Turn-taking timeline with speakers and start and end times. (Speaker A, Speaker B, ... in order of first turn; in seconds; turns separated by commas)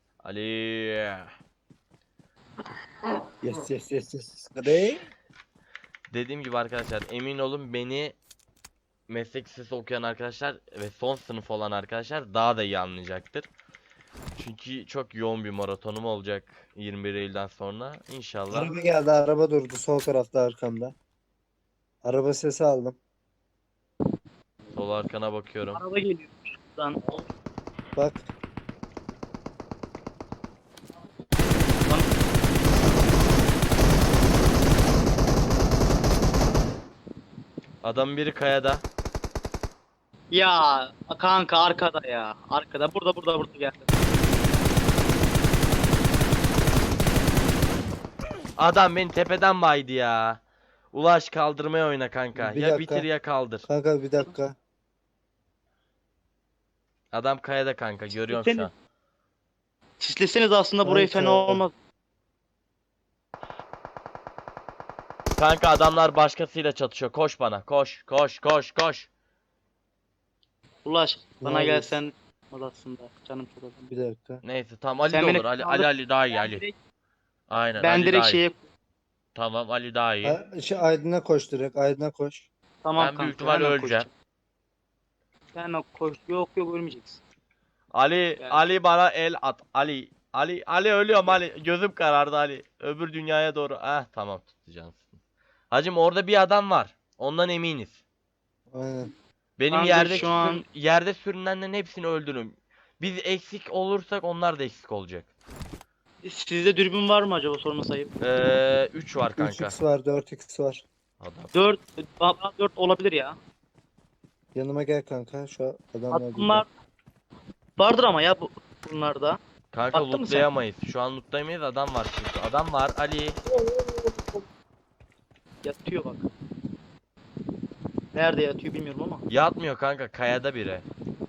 Speaker A: 0.2-1.3, Speaker B: 3.4-5.1, Speaker A: 4.7-4.9, Speaker A: 6.1-8.2, Speaker A: 9.1-13.5, Speaker A: 14.4-18.7, Speaker B: 18.5-20.9, Speaker B: 22.0-23.0, Speaker A: 24.7-25.8, Speaker C: 25.7-27.0, Speaker B: 28.0-28.3, Speaker A: 37.8-38.8, Speaker C: 40.3-43.9, Speaker A: 48.6-53.7, Speaker B: 52.4-53.1, Speaker B: 53.6-54.6, Speaker A: 57.1-58.7, Speaker C: 58.2-58.7, Speaker C: 60.0-61.7, Speaker B: 60.8-61.6, Speaker A: 65.4-69.1, Speaker C: 70.8-73.8, Speaker B: 71.4-72.0, Speaker B: 73.9-74.4, Speaker A: 74.4-76.7, Speaker C: 75.1-76.7, Speaker A: 77.5-78.4, Speaker C: 77.8-78.6, Speaker A: 79.3-80.4, Speaker B: 80.2-82.5, Speaker C: 82.8-84.1, Speaker A: 83.0-84.1, Speaker C: 85.5-87.2, Speaker A: 87.9-95.2, Speaker A: 95.7-98.0, Speaker B: 98.7-99.1, Speaker A: 99.6-105.3, Speaker C: 99.7-100.6, Speaker C: 106.2-108.2, Speaker A: 108.2-109.8, Speaker B: 109.4-110.8, Speaker A: 111.2-111.5, Speaker C: 111.5-113.4, Speaker B: 114.5-116.6, Speaker C: 116.1-116.7, Speaker C: 117.8-119.4, Speaker A: 119.7-123.4, Speaker C: 119.9-120.5, Speaker C: 123.5-124.4, Speaker C: 125.6-126.3, Speaker C: 128.1-129.2, Speaker A: 129.3-130.9